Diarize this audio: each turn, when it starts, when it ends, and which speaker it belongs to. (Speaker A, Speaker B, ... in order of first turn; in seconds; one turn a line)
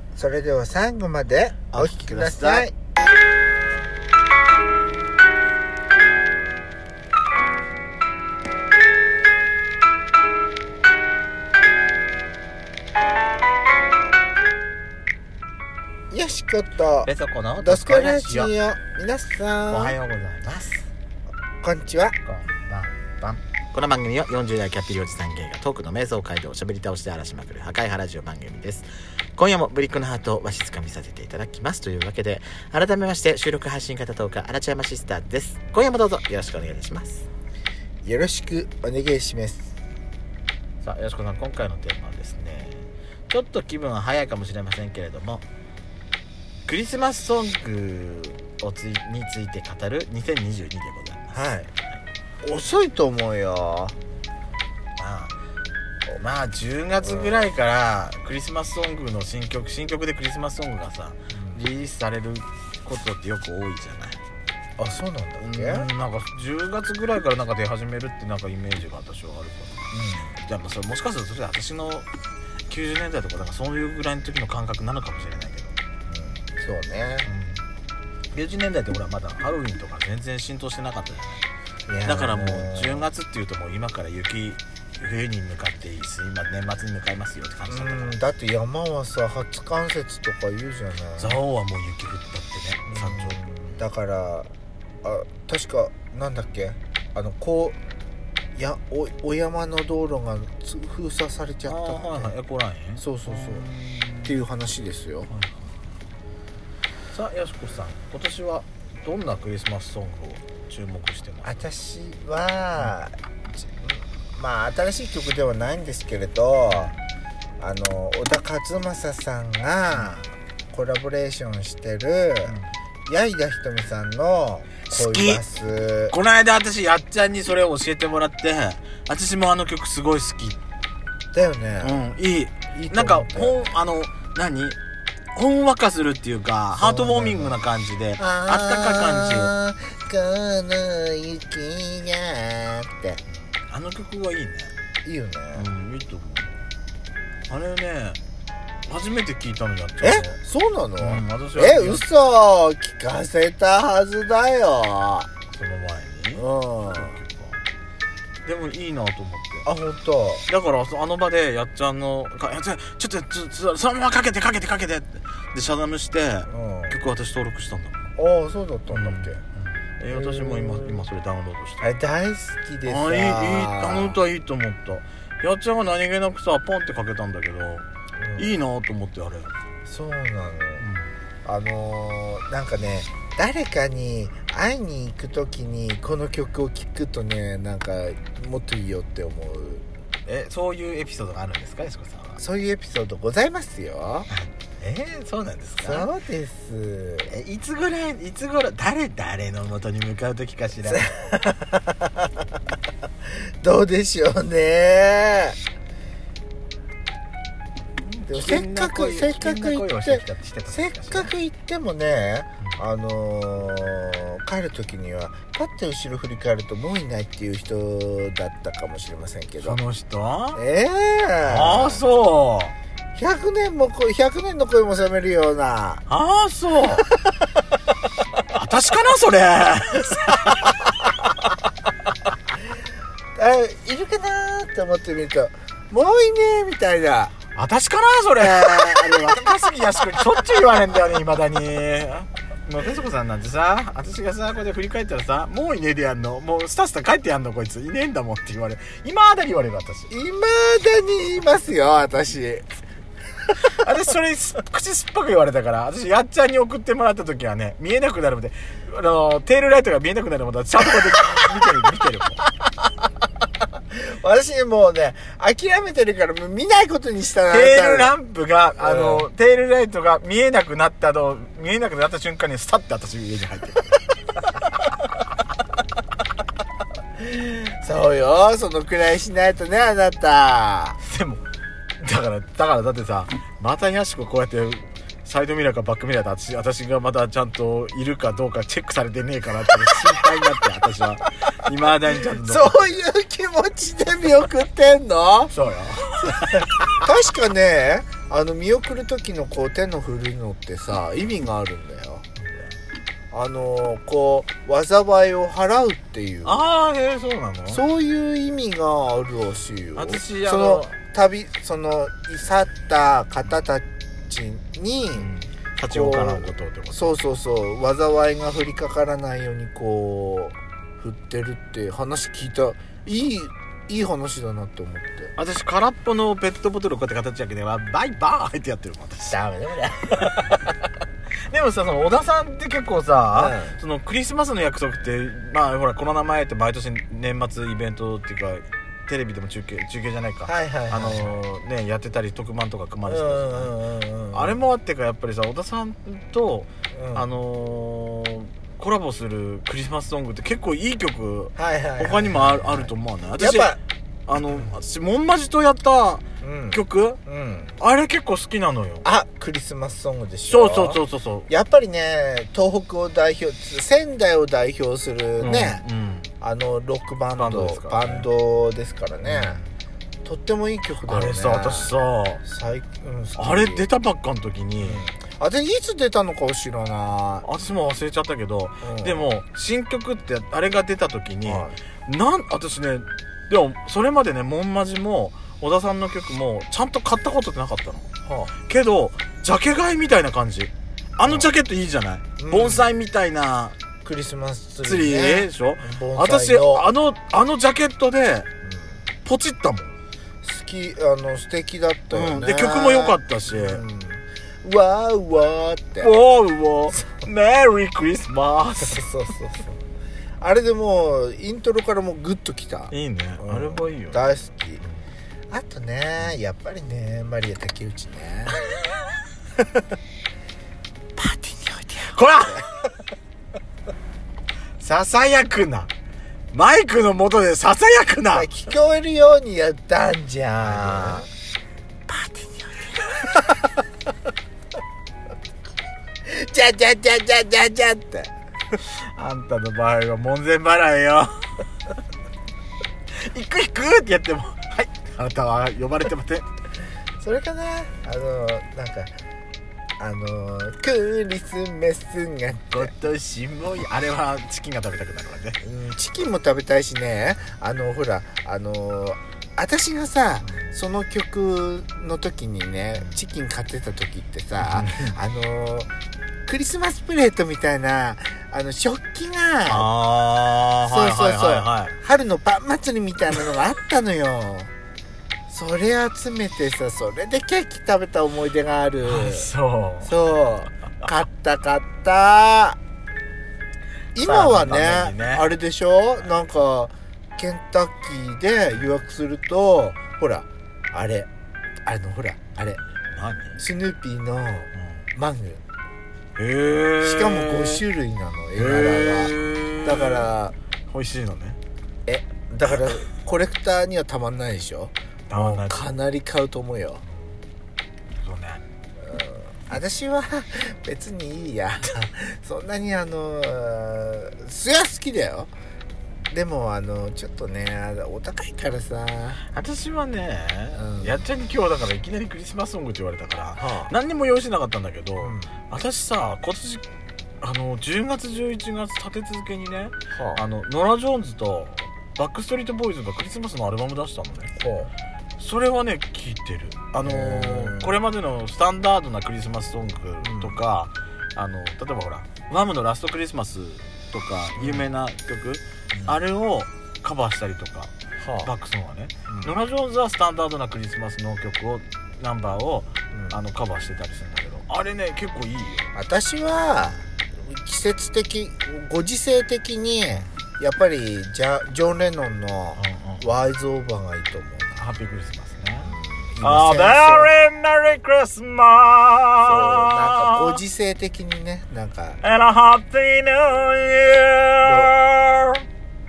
Speaker A: 0.1-2.7
Speaker B: 1.7-2.6
Speaker A: 16.1-20.0
Speaker B: 17.0-18.5
Speaker B: 19.7-20.9
Speaker A: 21.6-22.1
Speaker B: 22.2-37.2
Speaker A: 38.0-39.8
Speaker B: 40.8-45.4
Speaker B: 46.6-51.4
Speaker A: 51.3-51.7
Speaker A: 52.4-54.0
Speaker B: 55.0-55.3
Speaker B: 56.2-64.2
Speaker A: 57.0-57.4
Speaker A: 61.3-61.6
Speaker A: 64.8-65.9
Speaker B: 65.4-69.9
Speaker A: 69.9-70.4
Speaker B: 70.4-72.1
Speaker B: 72.7-75.8
Speaker A: 76.1-77.3
Speaker B: 77.2-77.6
Speaker B: 78.3-81.4
Speaker A: 81.9-83.1
Speaker B: 82.0-88.2
Speaker A: 87.7-91.4
Speaker B: 91.2-93.8
Speaker A: 92.9-94.5
Speaker A: 95.0-97.8
Speaker A: 98.5-102.3
Speaker B: 101.7-104.4
Speaker A: 103.0-103.7
Speaker A: 104.2-105.3
Speaker B: 105.3-105.7
Speaker B: 107.1-111.5
Speaker A: 111.4-116.9
Speaker B: 116.7-117.0
Speaker A: 117.6-126.1
Speaker B: 124.9-125.4
Speaker B: 126.1-130.6
Speaker A: 131.3-132.1
Speaker B: 131.8-134.8
Speaker A: 132.7-133.5
Speaker B: 135.3-139.5
Speaker A: 136.8-137.5
Speaker A: 138.2-143.2
Speaker B: 143.4-144.7
Speaker A: 145.0-145.7
Speaker B: 145.5-146.5
Speaker B: 147.5-148.2
Speaker B: 148.9-150.4
Speaker A: 150.0-155.3
Speaker B: 151.0-152.0
Speaker B: 155.5-157.6
Speaker A: 156.3-157.2
Speaker B: 158.4-159.7
Speaker A: 159.6-160.5
Speaker B: 160.5-168.1
Speaker A: 166.5-167.0
Speaker A: 168.2-169.4
Speaker B: 168.9-171.9
Speaker A: 170.1-171.1
Speaker A: 171.8-174.2
Speaker B: 172.8-179.5
Speaker A: 178.2-178.5
Speaker A: 179.8-180.8
Speaker B: 180.8-181.1
Speaker A: 181.4-189.8
Speaker B: 190.2-192.4
Speaker A: 192.4-194.3
Speaker B: 194.3-196.1
Speaker A: 195.8-197.3
Speaker B: 197.3-201.1
Speaker A: 200.8-202.3
Speaker A: 203.6-205.6
Speaker B: 208.0-211.3
Speaker A: 208.3-219.8
Speaker B: 219.6-220.6
Speaker A: 220.5-222.0
Speaker B: 221.4-222.7
Speaker A: 223.2-226.0
Speaker B: 226.1-227.1
Speaker A: 226.9-227.6
Speaker B: 228.5-230.9
Speaker A: 233.3-237.3
Speaker B: 237.5-250.1
Speaker A: 239.0-239.3
Speaker A: 250.1-252.7
Speaker B: 253.6-262.4
Speaker A: 263.9-268.1
Speaker B: 267.5-274.0
Speaker A: 268.8-269.3
Speaker A: 277.2-281.0
Speaker B: 281.0-281.4
Speaker B: 282.0-292.8
Speaker A: 292.4-295.5
Speaker B: 295.5-297.0
Speaker A: 296.2-302.2
Speaker B: 302.4-302.7
Speaker A: 303.3-306.6
Speaker B: 306.4-307.8
Speaker A: 307.7-315.3
Speaker B: 309.9-310.9
Speaker B: 315.1-317.2
Speaker A: 315.9-325.3
Speaker B: 325.4-329.4
Speaker A: 329.3-330.8
Speaker B: 330.2-330.5
Speaker B: 331.5-343.7
Speaker A: 333.3-333.8
Speaker A: 340.4-341.4
Speaker A: 343.1-344.5
Speaker B: 344.3-353.8
Speaker A: 346.9-347.3
Speaker A: 351.5-353.8
Speaker B: 354.3-357.2
Speaker A: 354.3-354.7
Speaker A: 356.4-357.7
Speaker B: 357.8-359.1
Speaker A: 359.0-365.8
Speaker B: 360.5-361.5
Speaker B: 365.4-366.3
Speaker A: 366.4-369.6
Speaker B: 367.3-368.3
Speaker B: 369.2-369.7
Speaker A: 370.2-373.9
Speaker B: 371.1-372.4
Speaker B: 373.4-375.0
Speaker A: 374.8-377.5
Speaker B: 377.4-393.7
Speaker A: 378.8-379.3
Speaker A: 381.4-381.8
Speaker A: 388.2-388.5
Speaker A: 391.2-391.5
Speaker A: 392.4-392.9
Speaker A: 394.0-396.9
Speaker B: 394.8-398.5
Speaker A: 398.6-399.0
Speaker B: 399.2-399.9
Speaker A: 400.4-406.2
Speaker B: 402.1-403.8
Speaker B: 406.0-409.1
Speaker A: 408.8-409.8
Speaker A: 410.4-414.8
Speaker B: 412.9-415.0
Speaker A: 415.5-418.6
Speaker A: 421.2-422.6
Speaker B: 421.3-422.7
Speaker B: 424.8-425.9
Speaker B: 426.5-428.5
Speaker A: 428.3-431.3
Speaker B: 430.6-431.2
Speaker A: 432.6-433.7
Speaker A: 436.2-438.3
Speaker B: 438.8-441.4
Speaker B: 443.2-446.5
Speaker A: 447.2-449.1
Speaker A: 450.0-452.9
Speaker B: 452.7-455.6
Speaker A: 455.6-465.9
Speaker B: 464.6-465.2
Speaker A: 466.4-469.9
Speaker B: 469.6-471.9
Speaker A: 470.9-474.7
Speaker A: 475.5-479.5
Speaker B: 479.0-480.2
Speaker A: 480.0-482.8
Speaker A: 484.1-491.3
Speaker B: 484.2-485.5
Speaker A: 491.8-492.8
Speaker B: 492.8-493.6
Speaker A: 493.6-495.6
Speaker B: 494.8-495.0
Speaker B: 496.4-497.8
Speaker A: 497.0-500.5
Speaker B: 498.6-500.3
Speaker B: 500.9-501.6
Speaker A: 502.1-507.0
Speaker B: 505.3-505.9
Speaker B: 508.2-508.6
Speaker A: 509.0-515.5
Speaker A: 516.3-519.4
Speaker B: 519.5-526.8
Speaker A: 520.7-521.2
Speaker A: 523.6-523.9
Speaker A: 525.2-525.5
Speaker B: 527.4-534.5
Speaker A: 530.1-530.4
Speaker A: 534.5-534.9
Speaker B: 535.4-555.9
Speaker A: 537.0-538.0
Speaker A: 540.2-540.6
Speaker A: 544.6-544.9
Speaker A: 545.9-546.2
Speaker A: 548.2-548.5
Speaker A: 549.3-549.5
Speaker A: 553.1-553.4
Speaker A: 555.9-564.9
Speaker B: 562.8-563.3
Speaker B: 564.8-570.6
Speaker A: 565.8-567.3
Speaker A: 569.4-572.2
Speaker B: 572.2-575.6
Speaker A: 574.6-574.9